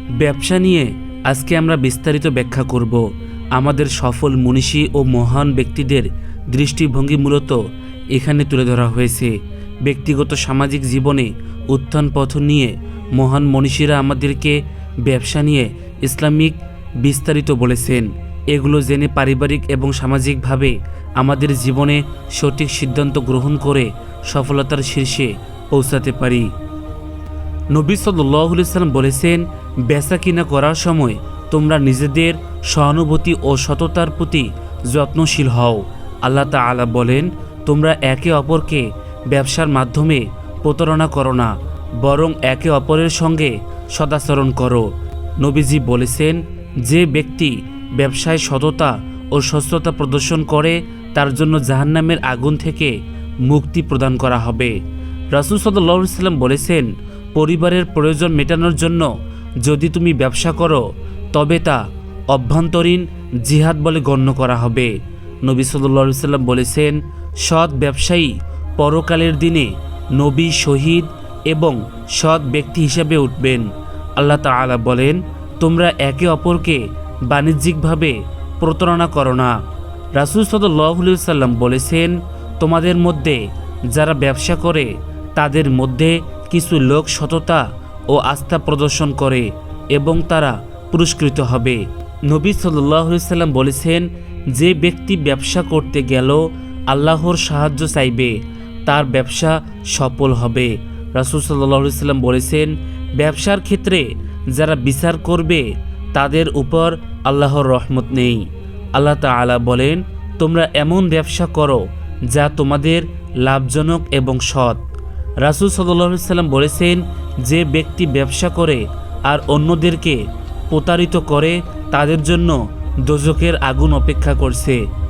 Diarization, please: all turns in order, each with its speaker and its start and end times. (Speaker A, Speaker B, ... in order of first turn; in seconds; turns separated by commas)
Speaker A: 0.2-3.0, Speaker A: 3.6-7.6, Speaker A: 8.1-9.3, Speaker A: 9.8-26.5, Speaker A: 27.7-44.9, Speaker A: 45.4-53.0, Speaker A: 53.5-54.8, Speaker A: 55.3-59.1, Speaker A: 59.6-61.8, Speaker A: 62.3-64.9, Speaker A: 65.5-73.7, Speaker A: 74.2-79.5, Speaker A: 80.2-98.4, Speaker A: 98.9-108.5, Speaker A: 109.0-114.8, Speaker A: 115.4-120.2, Speaker A: 120.7-124.8